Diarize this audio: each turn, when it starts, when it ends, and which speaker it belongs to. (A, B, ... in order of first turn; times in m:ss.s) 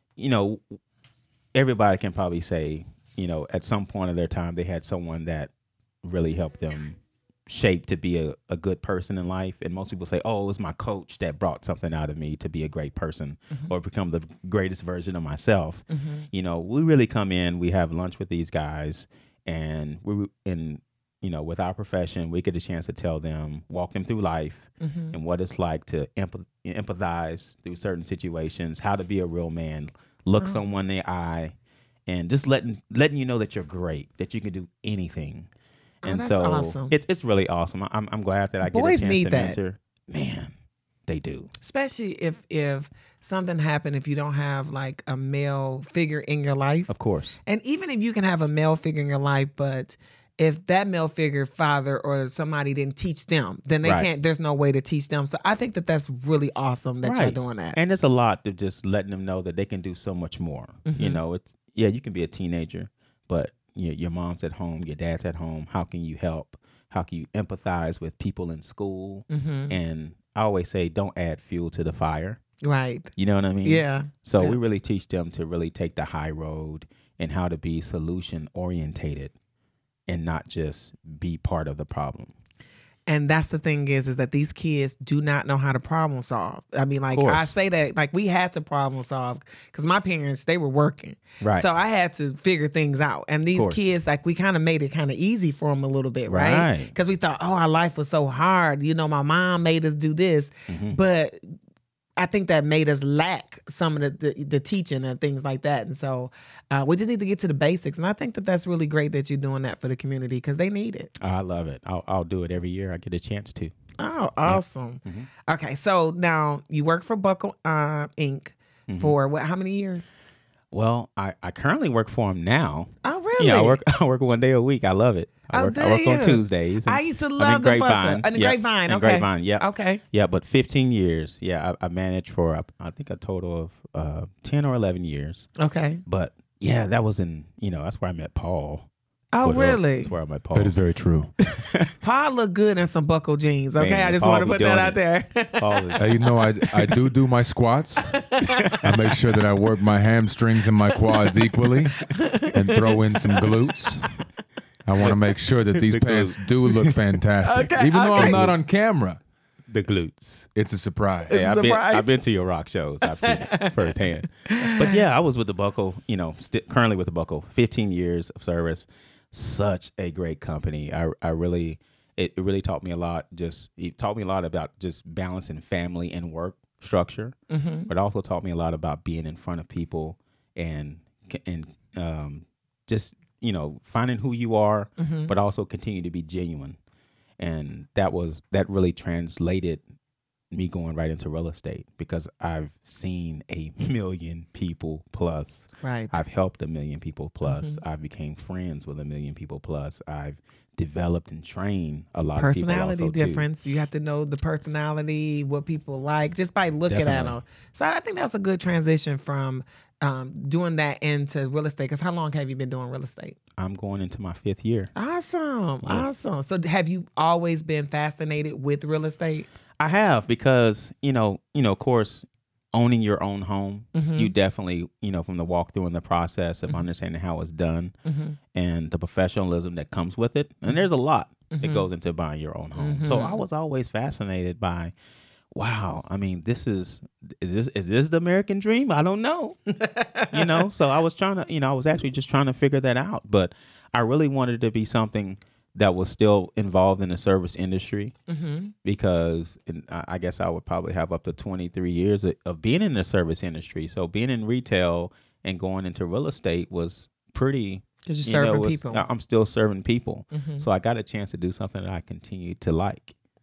0:00.2-0:00.8 A
0:01.5-0:05.5 A
0:06.0-0:31.5 A
0:15.9-0:16.3 B
0:24.8-0:25.2 B
0:32.1-0:35.5 A
0:36.0-0:36.9 B
0:36.0-0:40.5 A
0:38.6-0:39.6 B
0:41.1-0:41.5 A
0:41.6-0:46.9 B
0:46.9-0:47.4 A
0:47.4-0:57.8 B
0:57.0-1:12.4 A
1:00.8-1:01.2 B
1:09.3-1:09.8 B
1:12.6-1:13.1 B
1:13.2-1:19.3 A
1:13.6-1:14.6 B
1:20.1-1:22.3 A
1:23.1-1:41.5 B
1:27.1-1:27.5 A
1:31.4-1:31.7 A
1:33.5-1:33.8 A
1:36.3-1:36.9 A
1:40.7-1:41.0 A
1:42.2-1:51.1 B
1:51.2-1:53.7 A
1:54.0-2:00.1 B
1:54.4-1:55.3 A
1:58.9-1:59.2 A
2:00.7-2:15.5 A
2:03.0-2:03.8 B
2:05.5-2:10.0 B
2:15.6-2:16.0 B
2:16.0-2:18.9 A
2:19.3-2:20.1 B
2:19.4-2:20.7 A
2:20.5-2:21.3 C
2:21.6-2:21.9 A
2:22.0-2:26.1 B
2:23.8-2:25.0 A
2:25.6-2:26.1 A
2:26.0-2:28.2 C
2:28.3-2:28.8 B
2:28.6-2:28.9 A
2:28.8-2:34.2 C
2:32.1-2:33.4 B
2:34.8-2:39.2 C
2:35.7-2:37.0 A
2:37.4-2:38.5 B
2:38.2-2:38.5 A
2:39.7-2:40.5 A
2:40.5-2:41.3 C
2:41.3-2:57.4 A
2:41.3-2:42.1 B
2:43.2-2:43.9 B
2:44.4-2:45.0 B
2:57.5-2:57.9 B
2:57.9-3:06.8 A
3:05.0-3:05.3 B
3:07.4-3:09.8 A
3:10.5-3:23.4 A
3:15.8-3:16.2 B
3:17.4-3:17.8 B
3:22.4-3:33.4 B
3:26.9-3:27.4 A
3:33.6-3:34.9 A
3:35.0-3:39.5 B
3:35.8-3:36.1 A
3:39.8-3:47.9 A
3:43.9-3:44.3 B
3:48.0-3:48.4 B
3:48.5-3:54.9 A
3:51.5-3:51.8 B
3:52.8-3:53.4 B
3:55.5-3:59.6 A
3:59.8-4:00.6 B
4:00.3-4:08.1 A
4:08.3-4:08.7 B
4:08.8-4:23.1 A
4:18.0-4:19.0 B
4:20.3-4:20.6 B